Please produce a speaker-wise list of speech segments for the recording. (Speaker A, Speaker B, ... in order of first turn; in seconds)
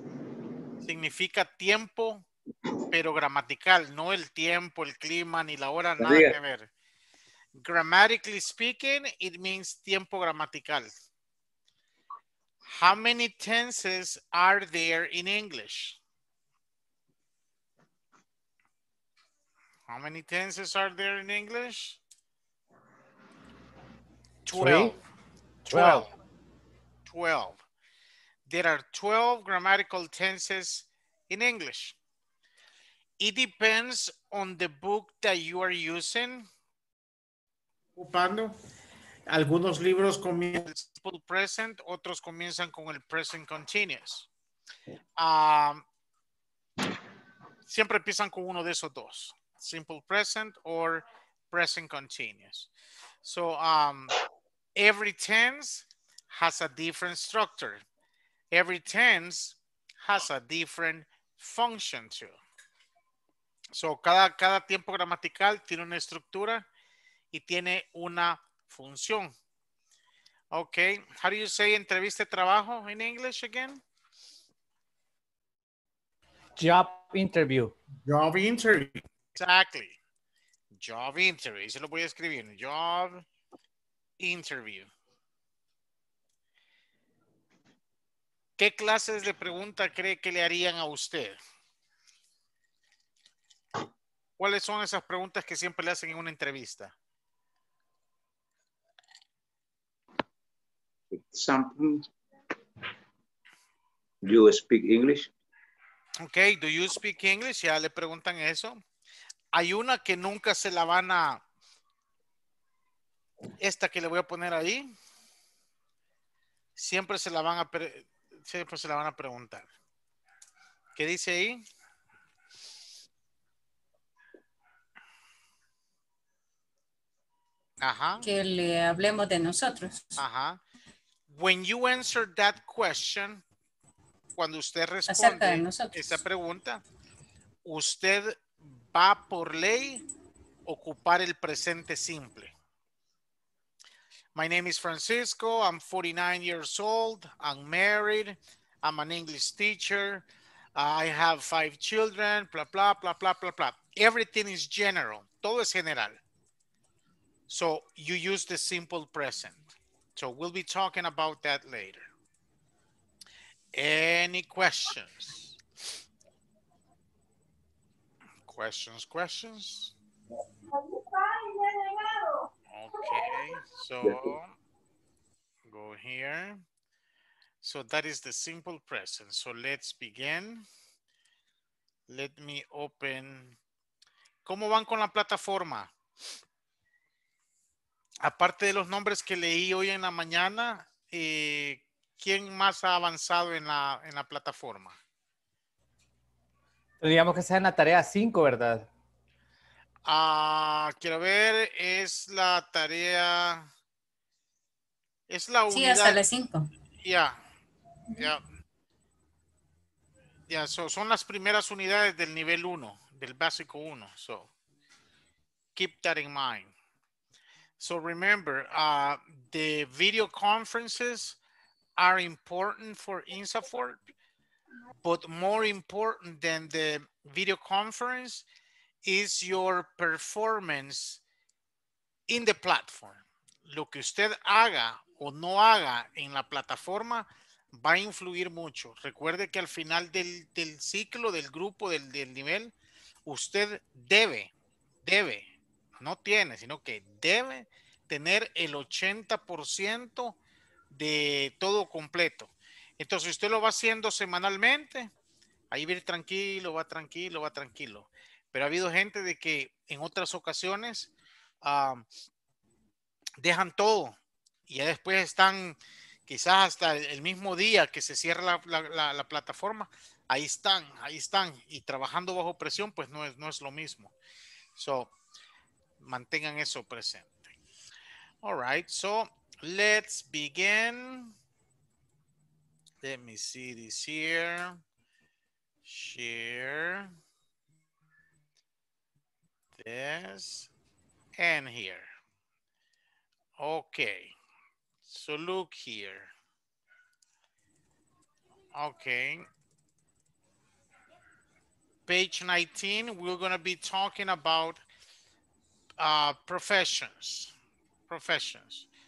Speaker A: 0.8-2.2, 2.9-6.7, 7.6-10.9, 12.7-16.0, 19.9-22.0, 24.4-25.0, 25.6-26.1, 27.1-27.6, 28.5-32.0, 33.2-36.5, 38.0-38.5, 39.3-44.3, 45.2-45.8, 47.7-52.7, 53.2-54.1, 54.8-57.8, 58.5-62.3, 63.7-66.6, 67.3-69.3, 70.5-73.8, 78.0-79.9, 80.8-83.2, 84.2-84.9, 88.6-91.4, 94.4-96.9, 106.2-108.8, 109.5-111.4, 113.6-114.9, 116.8-119.7, 121.0-121.6, 127.8-128.3, 130.2-130.6, 131.3-133.4, 134.3-136.8, 137.6-140.0, 140.7-142.5, 144.3-150.2, 150.8-156.2, 157.5-162.1, 163.7-165.6, 168.5-169.9, 172.7-174.5, 175.7-176.6, 177.6-180.7, 182.1-183.6, 184.4-185.9, 188.2-195.0, 200.1-203.7, 205.3-206.2, 207.0-207.4, 208.2-208.4, 210.5-214.5, 215.8-216.7, 217.8-221.4, 222.0-224.0, 225.0-228.4, 229.0-231.2, 232.3-242.7, 243.2-244.5, 245.0-245.4, 246.0-250.4, 250.9-255.1, 255.7-261.1, 261.6-262.0, 263.4-264.1, 264.7-274.1, 274.8-275.1, 276.0-277.3, 278.4-281.3, 283.0-284.8, 285.9-287.1, 289.8-290.7, 291.4-292.1, 293.6-294.3, 295.1-296.3, 298.7-299.5, 302.1-304.8, 306.0-307.5, 308.1-308.9
Speaker B: 6.0-6.4, 101.1-102.1, 104.2-105.3, 174.1-174.3
Speaker C: 24.5-24.9, 25.7-26.1, 76.6-77.7, 197.0-198.9
Speaker D: 128.2-130.2, 135.1-136.2, 205.7-206.7